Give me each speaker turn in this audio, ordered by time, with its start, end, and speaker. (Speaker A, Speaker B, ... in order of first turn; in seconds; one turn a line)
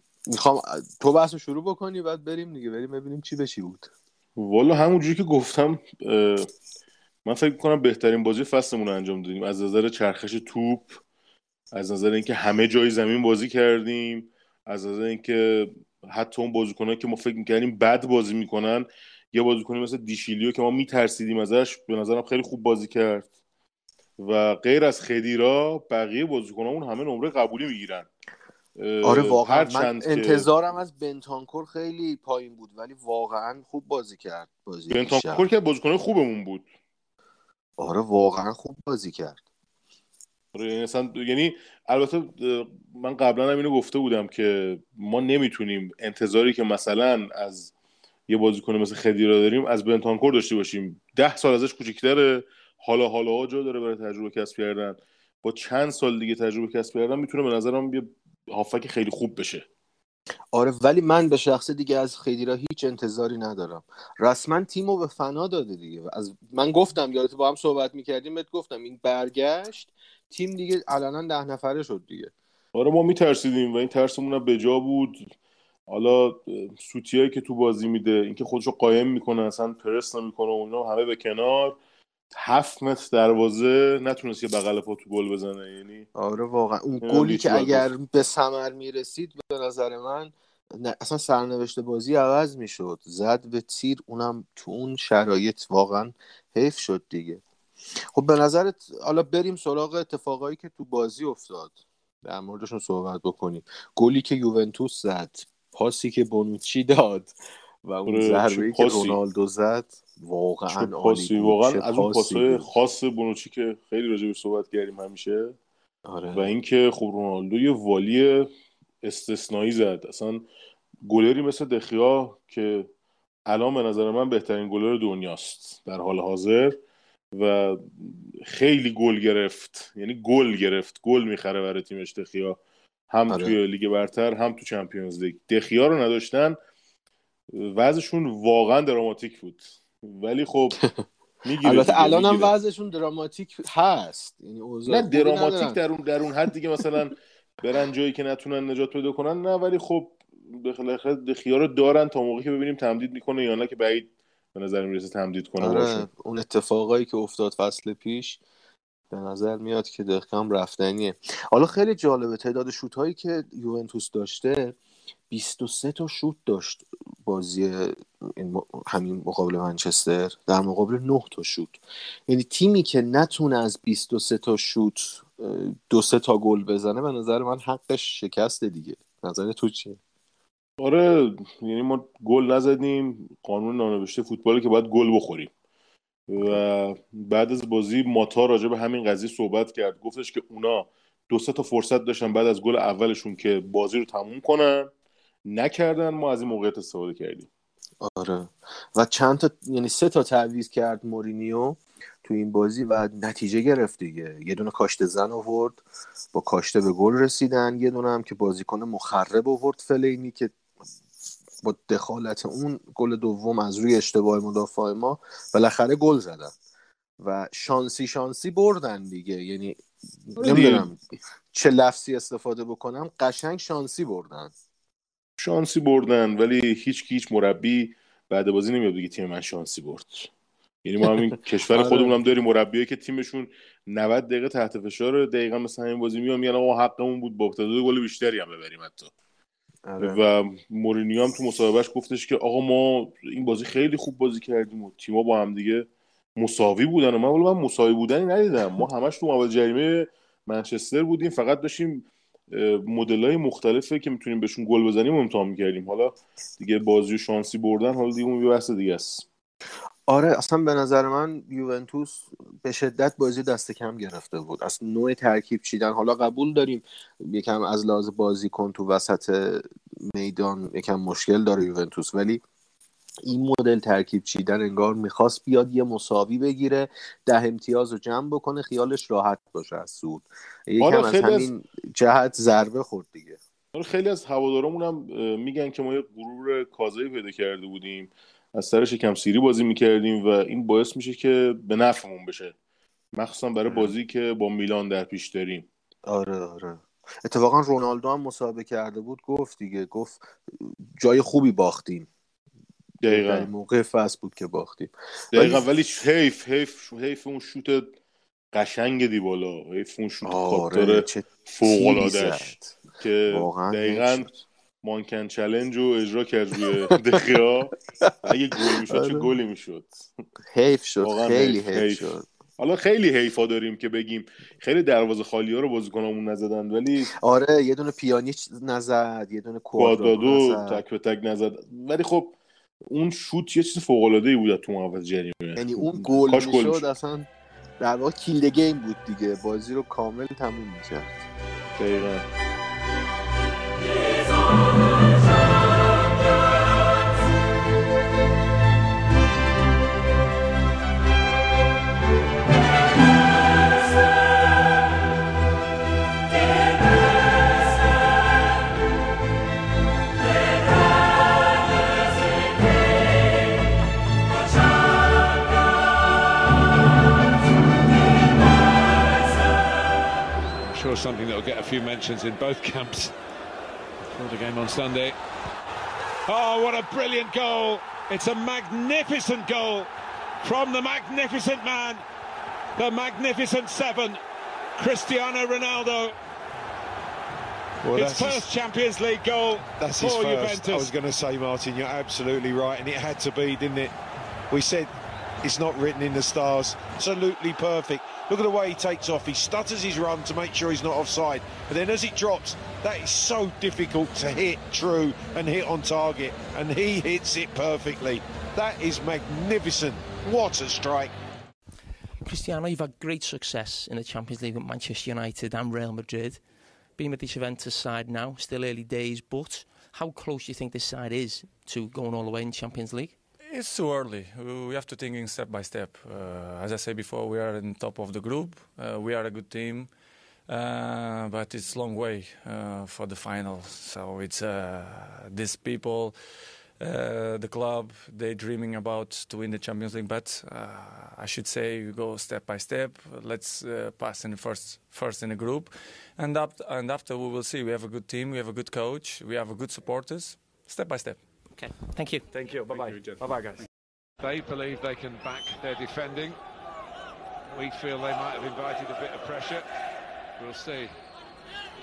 Speaker A: 0.3-3.9
Speaker B: 4.4-6.5
Speaker B: 7.2-11.0
Speaker B: 11.7-23.3
Speaker B: 24.2-28.1
Speaker B: 28.8-30.5
Speaker A: 29.0-35.5
Speaker B: 34.9-36.6
Speaker A: 37.8-39.4
Speaker B: 40.5-47.7
Speaker B: 48.3-59.7
Speaker A: 60.5-72.3
Speaker B: 72.7-75.3
Speaker B: 75.9-81.8
Speaker B: 82.3-86.1
Speaker A: 86.2-97.4
Speaker B: 87.0-87.9
Speaker A: 98.2-107.3
Speaker A: 107.8-112.6
Speaker B: 108.1-109.2
Speaker B: 110.7-115.6
Speaker A: 116.1-116.5
Speaker B: 116.3-118.5
Speaker B: 119.0-120.4
Speaker B: 121.0-122.9
Speaker B: 123.5-126.8
Speaker B: 127.3-132.6
Speaker B: 133.1-136.6
Speaker A: 133.3-133.6
Speaker B: 137.6-140.8
Speaker B: 141.4-142.5
Speaker A: 141.6-145.8
Speaker B: 144.9-156.1
Speaker A: 155.6-158.4
Speaker A: 159.1-164.8
Speaker A: 165.3-180.0
Speaker B: 180.8-185.5
Speaker B: 186.3-194.9
Speaker B: 195.5-197.5
Speaker A: 198.0-210.5
Speaker A: 211.6-216.5
Speaker A: 217.2-219.8
Speaker A: 220.3-221.0
Speaker B: 220.4-220.9
Speaker A: 221.5-224.5
Speaker B: 225.4-230.3
Speaker B: 230.8-239.1
Speaker A: 231.7-232.2
Speaker A: 239.9-240.2
Speaker B: 240.0-245.9
Speaker B: 246.4-259.2
Speaker A: 260.1-272.4
Speaker A: 273.2-283.4
Speaker B: 280.8-281.5
Speaker B: 283.7-292.5
Speaker B: 293.2-295.7
Speaker A: 293.7-293.9
Speaker A: 296.1-302.1
Speaker B: 303.0-303.5
Speaker A: 303.1-305.6
Speaker B: 305.3-307.9
Speaker B: 308.5-314.3
Speaker A: 310.2-312.8
Speaker A: 313.3-314.4
Speaker B: 314.8-317.7
Speaker B: 318.2-320.1
Speaker A: 318.9-319.3
Speaker A: 320.5-322.2
Speaker B: 321.0-322.1
Speaker B: 322.6-327.1
Speaker A: 327.2-330.8
Speaker B: 329.8-332.3
Speaker B: 332.9-336.9
Speaker A: 335.6-337.3
Speaker A: 337.8-341.2
Speaker B: 341.8-342.3
Speaker C: 370.6-373.2
Speaker C: 374.0-375.2
Speaker C: 376.3-379.9
Speaker C: 380.4-382.0
Speaker C: 382.8-384.2
Speaker C: 384.8-386.1
Speaker D: 387.8-388.5
Speaker C: 387.9-390.9
Speaker D: 389.8-393.9
Speaker D: 394.5-411.2
Speaker E: 412.2-423.2
Speaker F: 423.4-451.5
Speaker E: 451.5-452.3
Speaker F: 452.3-453.6
Speaker C: 452.4-453.6
Speaker C: 454.2-456.4
Speaker C: 457.5-459.7
Speaker C: 460.4-461.0